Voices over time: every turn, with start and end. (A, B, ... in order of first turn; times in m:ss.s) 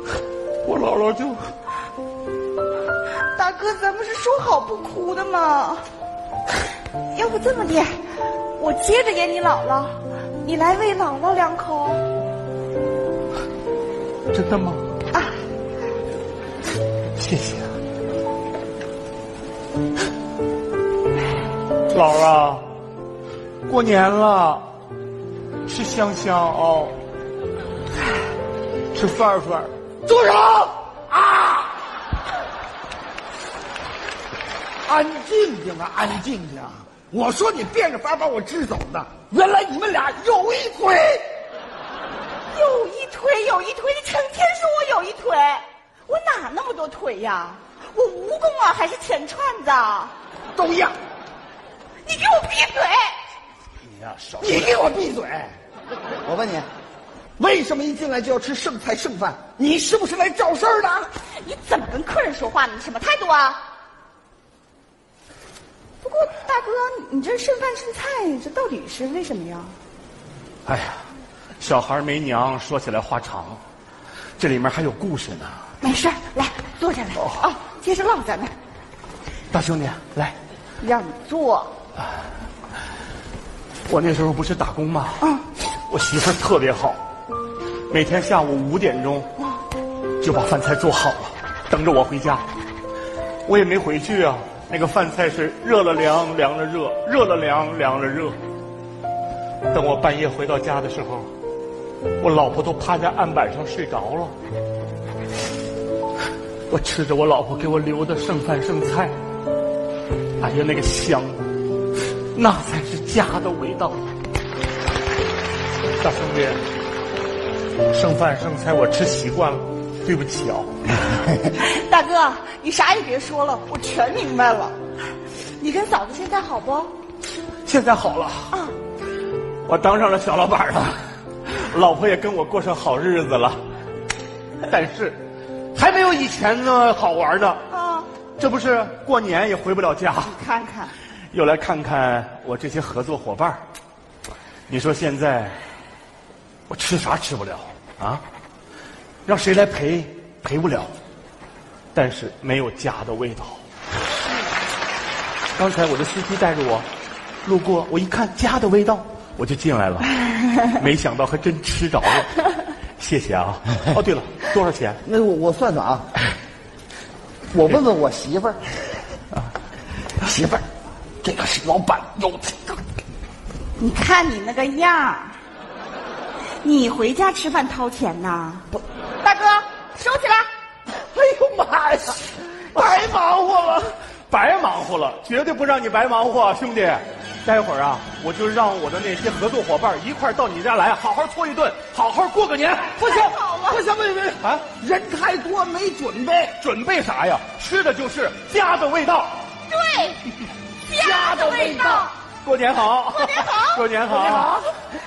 0:00.6-0:01.5 A
0:03.2-0:05.9 B
0:07.1-0:08.0 B
0:08.6-0:12.0 B
0:14.3-0:14.8 A
0:15.1-0:15.4 B
0:17.2-0:17.7 A
0:21.9-0:22.6 A
0:23.7-0:24.7 A
0:25.7-0:27.0 A
0:28.9-0:29.7 A
0:30.0-0:31.7 C
0:34.8-0:41.3 C
0:42.5-0:50.1 B
0:50.6-0:51.0 C
0:52.0-0:53.2 B
0:53.9-0:54.8 A
0:54.4-0:55.5 C
0:56.2-0:56.7 C
0:57.4-1:01.1 C
1:01.2-1:03.6 B
1:06.0-1:09.8 B
1:10.6-1:11.0 A
1:11.6-1:13.6 A
1:14.4-1:15.6 A
1:15.8-1:18.6 B
1:17.2-1:17.5 A
1:19.5-1:20.4 A
1:20.8-1:21.8 B
1:23.9-1:25.3 A
1:25.2-1:25.4 B
1:25.9-1:27.0 A
1:27.9-1:29.3 A
1:30.2-1:32.4 A
1:33.4-1:38.4 A
1:39.7-1:41.3 A
1:42.2-1:44.3 A
1:46.7-1:49.1 A
1:50.4-1:51.5 A
1:52.3-1:54.1 A
1:56.0-1:56.6 A
1:57.9-2:00.7 A
2:01.5-2:04.8 B
2:05.6-2:06.9 B
2:07.6-2:08.5 A
2:09.7-2:13.6 A
2:14.7-2:15.2 A
2:15.8-2:17.6 A
2:17.7-2:18.1 B
2:18.4-2:20.4 A
2:20.2-2:20.9 B
2:21.3-2:23.6 A
2:24.7-2:25.6 A
2:26.7-2:28.2 A
2:29.3-2:30.9 A
2:31.9-2:33.6 A
2:35.6-2:36.9 A
2:37.4-2:42.4 A
2:43.0-2:45.0 A
2:45.0-2:46.0 C
2:47.5-2:48.6 C
2:50.2-2:50.6 C
2:51.2-2:52.8 C
2:53.8-2:55.4 B
2:56.6-2:58.7 B
2:59.2-3:00.5 B
3:01.0-3:13.0 A
3:13.0-3:13.8 B
3:13.0-3:16.6 C
3:16.6-3:19.4 A
3:19.7-3:20.2 B
3:20.8-3:22.2 B
3:21.0-3:22.1 C
3:22.4-3:24.5 A
3:23.1-3:23.8 B
3:24.1-3:24.7 C